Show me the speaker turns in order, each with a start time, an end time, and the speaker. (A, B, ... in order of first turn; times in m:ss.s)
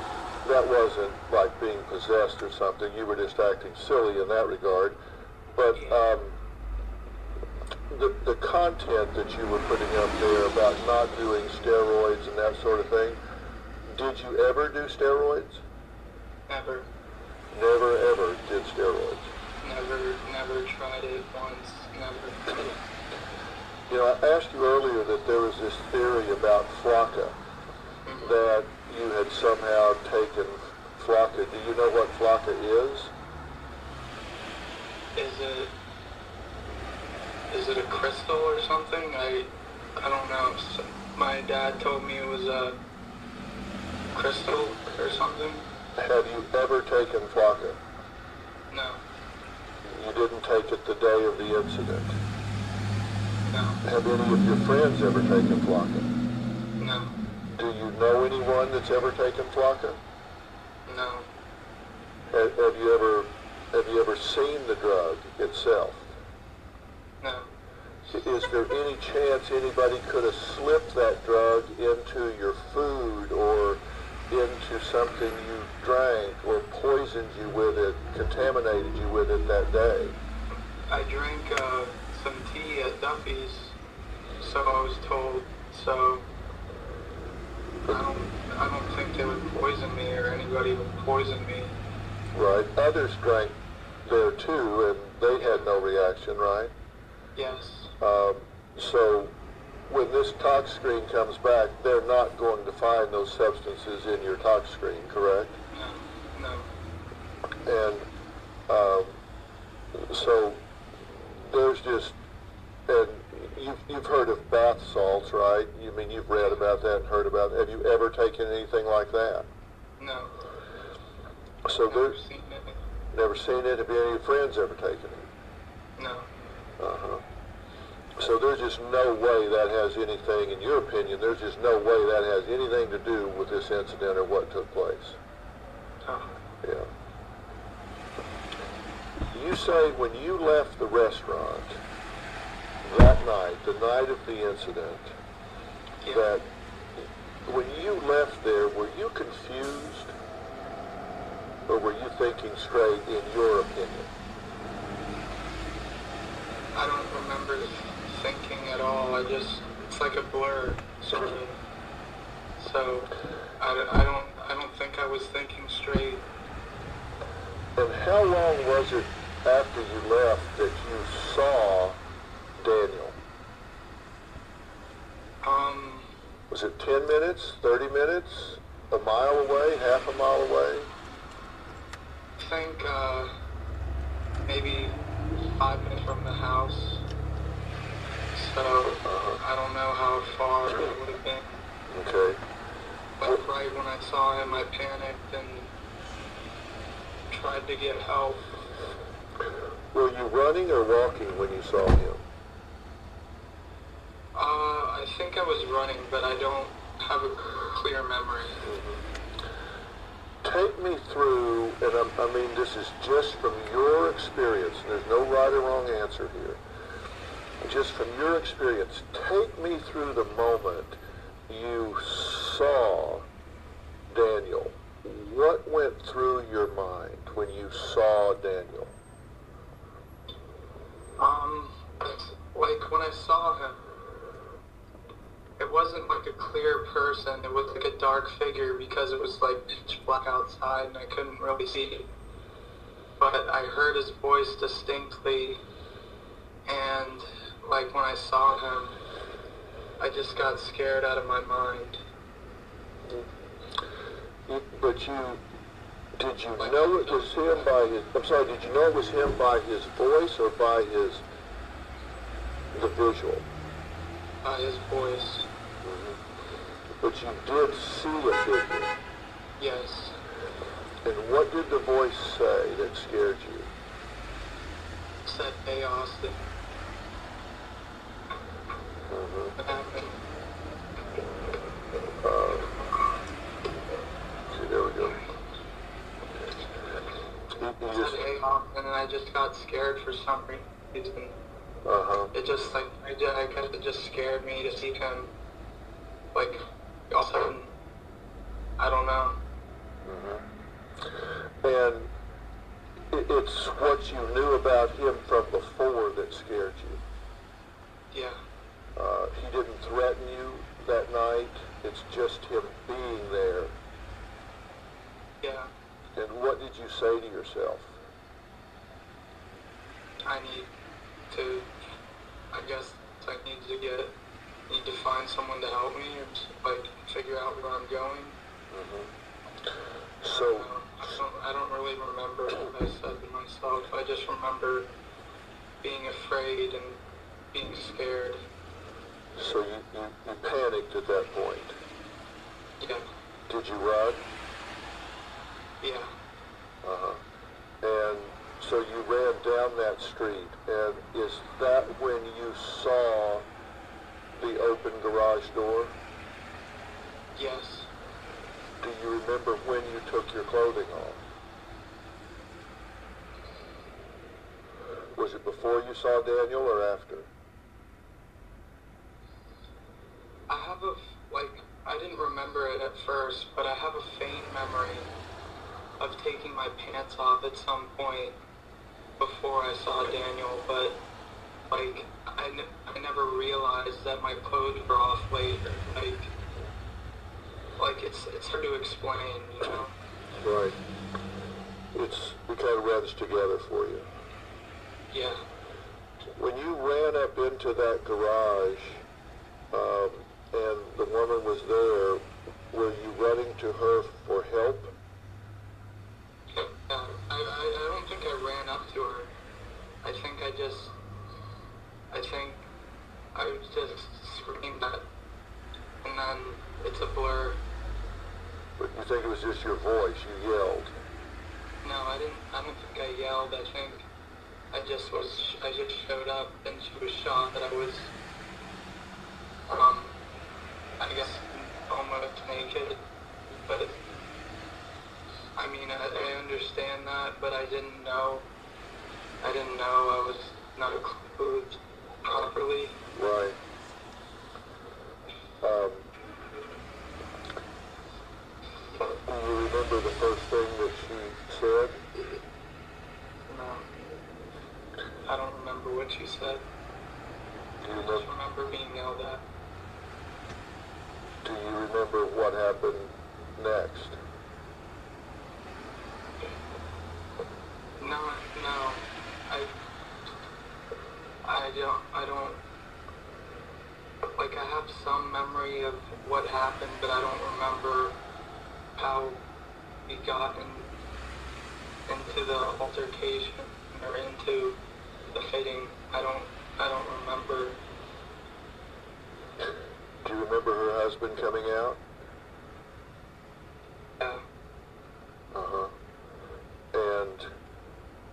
0:00.4-0:05.0 A
0:05.5-0:06.4 A
0:07.9-0:13.2 A
0:13.9-0:15.6 A
0:16.5-0:16.9 B
0:17.5-0:19.3 A
0:19.6-0:22.8 B
0:23.9-0:27.4 A
0:28.1-0:28.4 B
0:28.2-0:33.1 A
0:35.2-0:35.7 B
0:37.5-0:42.8 B
0:44.1-0:45.7 B
0:46.0-0:47.8 A
0:48.7-0:49.0 B
0:49.8-0:52.2 A
0:53.5-0:53.8 B
0:53.8-0:56.1 A
0:56.8-0:57.1 B
0:57.5-1:00.0 A
1:00.9-1:01.3 B
1:02.3-1:06.1 A
1:07.2-1:07.5 B
1:08.1-1:20.2 A
1:20.9-1:23.8 B
1:24.4-1:26.3 B
1:27.9-1:31.8 B
1:32.3-1:36.7 A
1:37.4-1:37.9 B
1:38.0-1:39.3 A
1:39.9-1:45.6 A
1:45.7-1:46.7 B
1:47.7-1:48.1 A
1:48.7-1:49.2 A
1:50.0-1:50.6 A
1:51.2-1:52.2 A
1:52.9-1:59.5 A
2:00.0-2:00.3 B
2:01.7-2:02.2 A
2:01.9-2:02.8 B
2:03.1-2:05.2 A
2:06.0-2:06.3 B
2:06.8-2:07.2 A
2:08.2-2:15.2 A
2:16.0-2:16.3 B
2:16.6-2:16.9 A
2:19.3-2:21.8 A
2:22.8-2:25.2 A
2:26.1-2:26.5 A
2:27.5-2:30.1 A
2:31.7-2:34.1 A
2:36.8-2:41.6 B
2:42.6-2:46.3 B
2:47.8-2:52.0 A
2:52.6-2:53.2 A
2:55.4-2:56.1 B
2:56.5-3:00.9 A
3:02.4-3:03.3 B
3:04.5-3:05.0 B
3:05.5-3:07.1 B
3:08.4-3:11.6 B
3:09.0-3:09.4 A
3:11.9-3:12.4 A
3:13.2-3:15.7 B
3:17.3-3:18.5 B
3:19.9-3:22.2 A
3:24.4-3:28.7 B
3:28.6-3:29.0 A
3:30.4-3:36.6 A
3:37.6-3:43.3 A
3:44.1-3:49.0 A
3:51.2-3:53.8 B
3:55.6-4:02.1 B
4:03.2-4:05.6 B
4:06.7-4:09.0 B
4:10.0-4:12.0 B
4:14.5-4:15.4 A
4:16.2-4:21.2 A
4:16.6-4:17.7 B
4:22.7-4:23.5 A
4:24.4-4:25.5 B
4:25.8-4:26.2 A
4:27.0-4:28.9 A
4:29.6-4:30.2 B
4:31.0-4:33.7 A
4:35.2-4:36.4 B
4:39.1-4:39.6 A
4:39.6-4:40.2 B
4:42.2-4:42.8 A
4:44.5-4:45.2 A
4:47.6-4:48.2 A
4:47.9-4:51.4 B
4:51.9-4:52.3 A
4:52.3-4:55.3 B
4:56.3-4:57.7 B
4:58.8-4:59.4 B
5:00.0-5:00.4 A
5:01.6-5:02.1 A
5:03.1-5:07.0 A
5:08.1-5:08.4 B
5:09.0-5:13.8 A
5:15.4-5:15.7 B
5:16.2-5:18.0 A
5:20.3-5:20.7 B
5:21.3-5:21.7 B
5:22.5-5:24.2 B
5:24.7-5:28.4 B
5:28.7-5:29.1 A
5:30.2-5:30.7 A
5:30.3-5:34.9 B
5:35.8-5:37.0 B
5:37.5-5:38.4 B
5:39.4-5:41.8 A
5:42.8-5:43.1 B
5:43.5-5:44.2 A
5:45.8-5:46.1 B
5:46.8-5:47.2 A
5:47.8-5:53.4 A
5:54.4-5:56.0 A
5:57.4-5:57.9 B
5:58.8-6:01.2 A
6:05.2-6:07.3 A
6:10.5-6:15.1 B
6:16.0-6:18.4 B
6:19.2-6:21.0 B
6:21.7-6:26.3 B
6:27.8-6:29.9 B
6:30.4-6:30.8 A
6:31.9-6:34.1 A
6:35.1-6:35.4 B
6:36.4-6:39.0 A
6:39.7-6:45.0 A
6:46.5-6:49.3 B
6:50.0-6:51.0 B
6:52.1-6:52.7 B
6:53.3-6:55.0 B
6:56.0-6:57.6 B
6:58.8-7:00.9 A
7:01.8-7:04.1 B
7:04.7-7:08.1 B
7:09.7-7:10.2 B
7:11.0-7:13.0 B
7:13.7-7:14.0 B
7:15.6-7:18.5 B
7:19.4-7:23.0 B
7:23.2-7:23.6 A
7:25.6-7:26.1 A
7:29.3-7:32.0 A
7:33.5-7:33.9 B
7:35.3-7:36.6 B
7:37.8-7:38.3 A
7:38.0-7:39.4 B
7:41.4-7:44.2 A
7:48.0-7:49.7 B
7:51.4-7:52.6 B
7:54.4-7:58.2 B
7:59.0-7:59.4 B
8:00.1-8:00.9 B
8:02.1-8:04.8 B
8:05.3-8:07.8 B
8:10.2-8:12.0 A
8:14.2-8:14.4 B
8:15.5-8:15.9 A
8:16.9-8:17.5 A